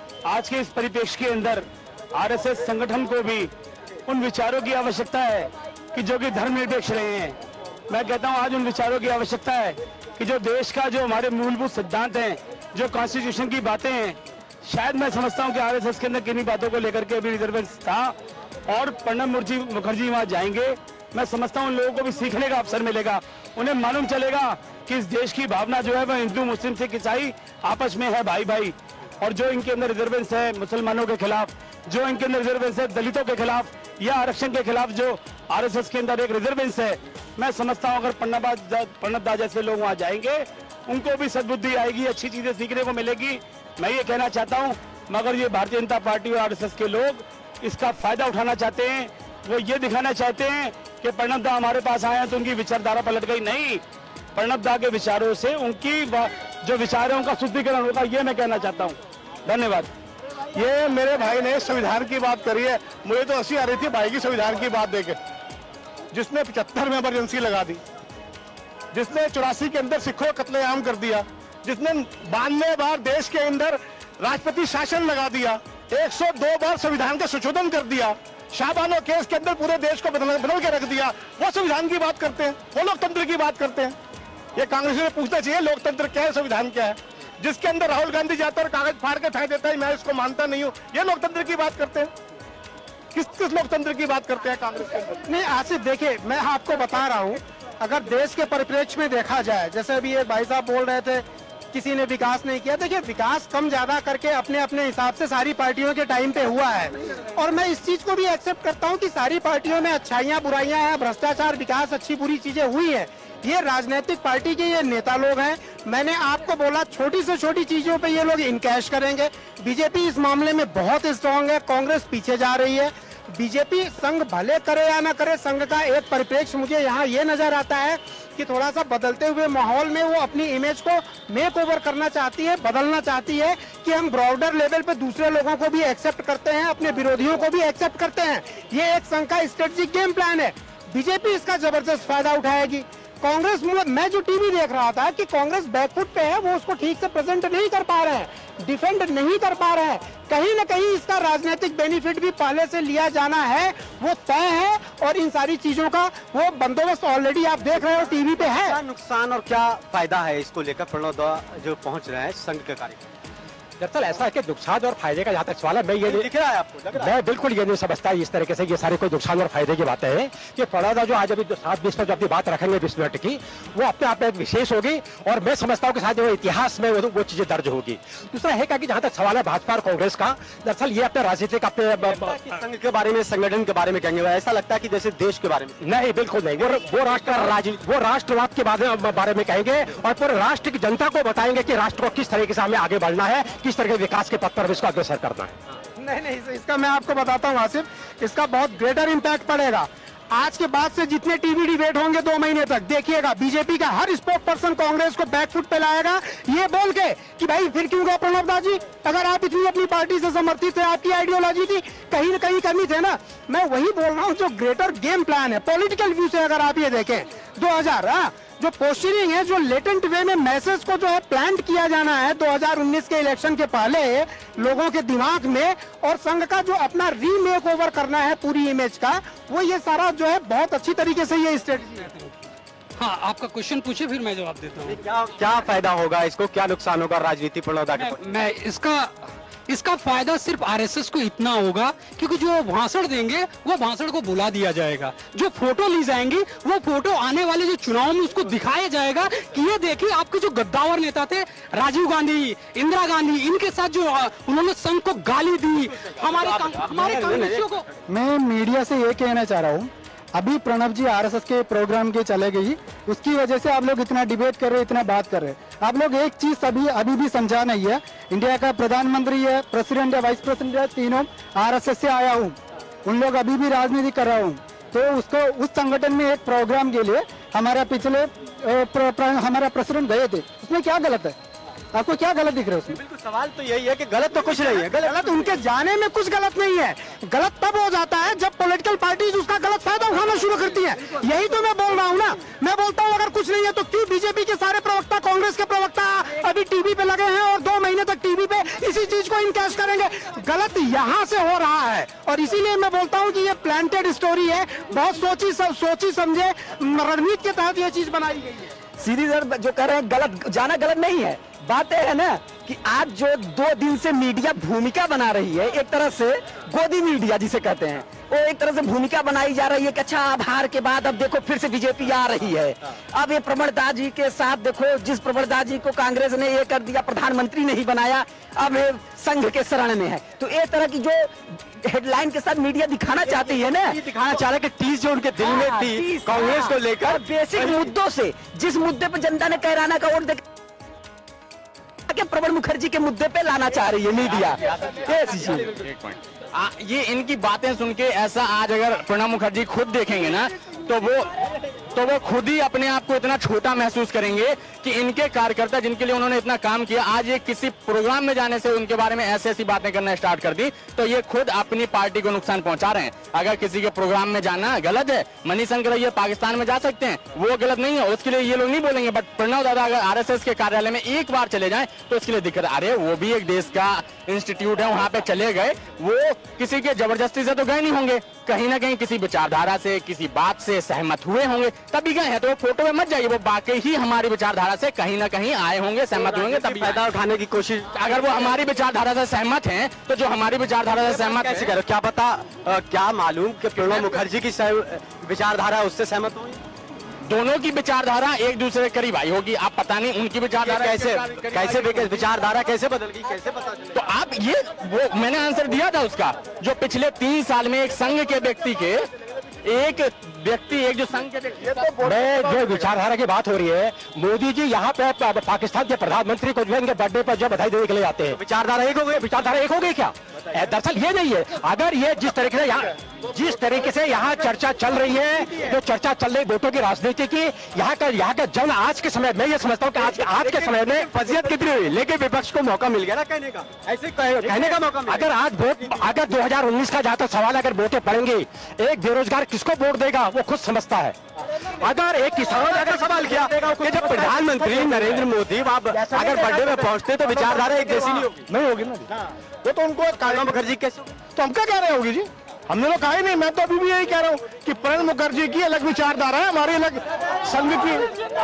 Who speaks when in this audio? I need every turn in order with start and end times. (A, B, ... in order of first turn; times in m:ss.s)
0:00.3-0:03.5 A
0:04.1-0:07.4 A
0:07.9-0:18.1 A
0:18.7-0:53.8 A
0:54.3-0:59.9 A
1:00.5-1:05.2 B
1:06.1-1:07.8 B
1:08.9-1:24.0 B
1:24.6-1:32.1 B
1:33.1-1:35.3 B
1:35.3-2:38.8 C
2:37.7-2:43.1 D
2:43.8-2:46.3 E
2:46.0-2:47.2 D
2:46.9-3:02.4 E
3:02.0-3:05.8 D
3:05.8-3:15.6 E
3:16.0-3:52.1 C
3:53.0-3:55.7 F
3:54.8-3:58.2 D
3:58.0-4:17.9 F
4:15.8-4:17.8 D
4:18.1-4:41.4 G
4:41.9-4:43.0 G
4:42.9-4:45.5 D
4:45.0-5:08.7 C
5:09.0-5:34.0 H
5:33.2-5:37.9 D
5:35.4-5:40.4 H
5:42.1-5:44.6 H
5:44.2-5:51.3 I
5:51.9-6:27.0 I
6:26.1-6:28.5 D
6:27.9-6:31.8 I
6:30.9-6:36.6 D
6:33.8-6:34.2 I
6:37.3-6:42.3 I
6:40.6-6:44.1 D
6:43.9-6:49.0 I
6:49.6-6:51.8 I
6:51.6-6:52.9 B
6:52.0-6:58.4 E
6:58.3-6:59.3 D
6:59.1-7:11.7 E
7:04.9-7:05.8 D
7:10.0-7:15.3 D
7:14.4-7:21.2 E
7:15.8-7:16.1 D
7:21.8-7:25.3 E
7:22.5-7:28.5 D
7:28.5-7:29.1 B
7:29.6-7:30.6 B
7:30.1-7:31.2 D
7:31.4-7:38.1 B